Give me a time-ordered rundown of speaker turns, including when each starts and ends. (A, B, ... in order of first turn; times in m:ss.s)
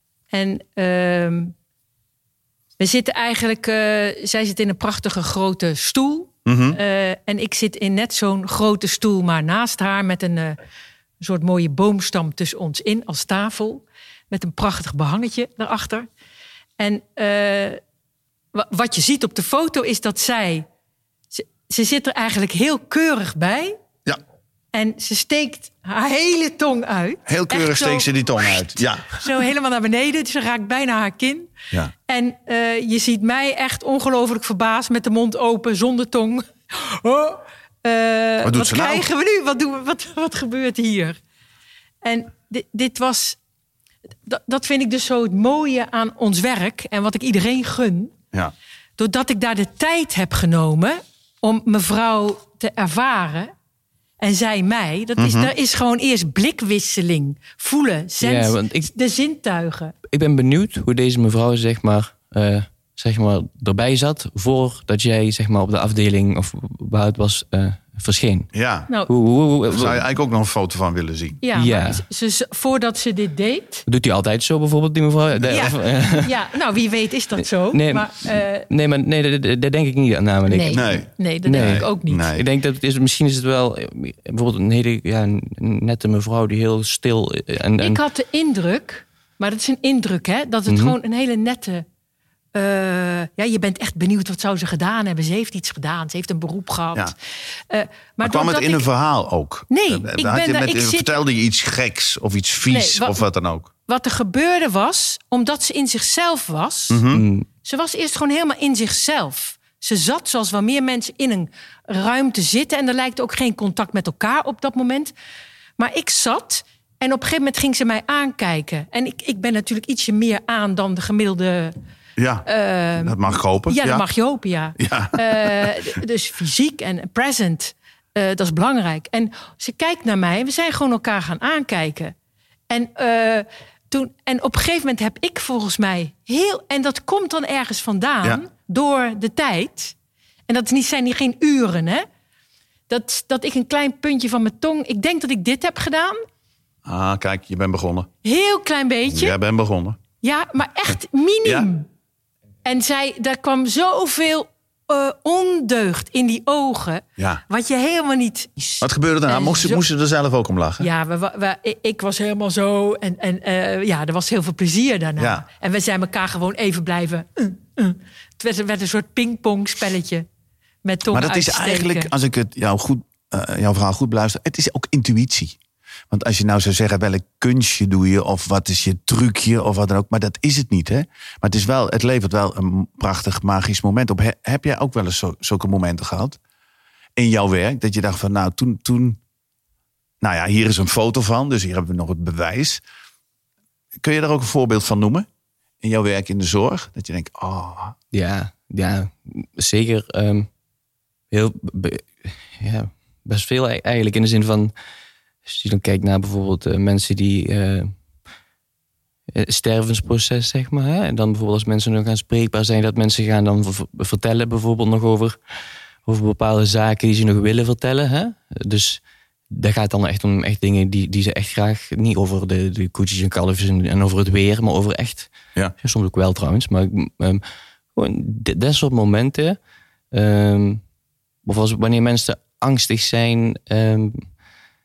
0:00.3-0:01.5 A
0:02.8-0:10.6 A
0:06.4-0:06.8 B
0:11.2-0:16.0 A
0:16.8-0:17.8 A
0:18.5-0:20.6 A
0:21.3-0:23.8 A
0:24.7-0:31.5 A
0:27.3-0:29.2 B
0:32.1-0:41.2 A
0:38.4-0:39.0 B
0:42.0-0:43.4 A
0:44.2-0:48.1 A
0:49.0-0:53.5 A
0:54.2-0:59.9 A
0:55.2-0:55.5 B
0:58.2-0:58.9 C
1:00.1-1:08.5 C
1:08.5-1:08.9 B
1:09.1-1:10.0 C
1:09.7-1:11.4 B
1:11.4-1:13.8 A
1:11.5-1:12.0 C
1:13.8-1:16.3 C
1:15.5-1:18.7 A
1:17.7-1:28.0 C
1:20.5-1:22.3 A
1:20.7-1:22.4 B
1:27.8-1:31.8 A
1:30.7-1:31.0 C
1:32.5-1:38.9 A
1:38.2-1:43.7 B
1:39.7-1:41.1 A
1:42.7-1:43.2 A
1:43.9-1:47.0 A
1:46.9-1:47.2 B
1:47.1-1:47.5 C
1:47.6-1:55.1 A
1:55.8-2:01.8 A
2:02.2-2:02.4 B
2:02.4-2:12.1 A
2:03.0-2:04.0 B
2:04.8-2:05.9 B
2:12.7-2:19.9 A
2:20.5-2:22.0 A
2:22.9-2:26.2 A
2:26.8-2:28.1 B
2:28.2-2:29.4 A
2:29.1-2:30.0 B
2:30.2-2:31.9 A
2:32.6-2:39.8 A
2:38.8-2:40.9 B
2:40.8-2:50.2 A
2:45.2-2:45.4 B
2:50.8-2:52.1 A
2:51.1-2:55.6 B
2:56.1-3:06.4 B
3:07.2-3:09.2 B
3:10.2-3:12.8 B
3:14.0-3:15.2 B
3:15.8-3:18.0 B
3:18.1-3:20.5 C
3:21.3-3:24.7 C
3:25.4-3:27.9 C
3:29.3-3:35.4 C
3:36.0-3:47.4 C
3:47.9-3:49.6 C
3:50.1-3:50.8 C
3:51.4-3:54.3 C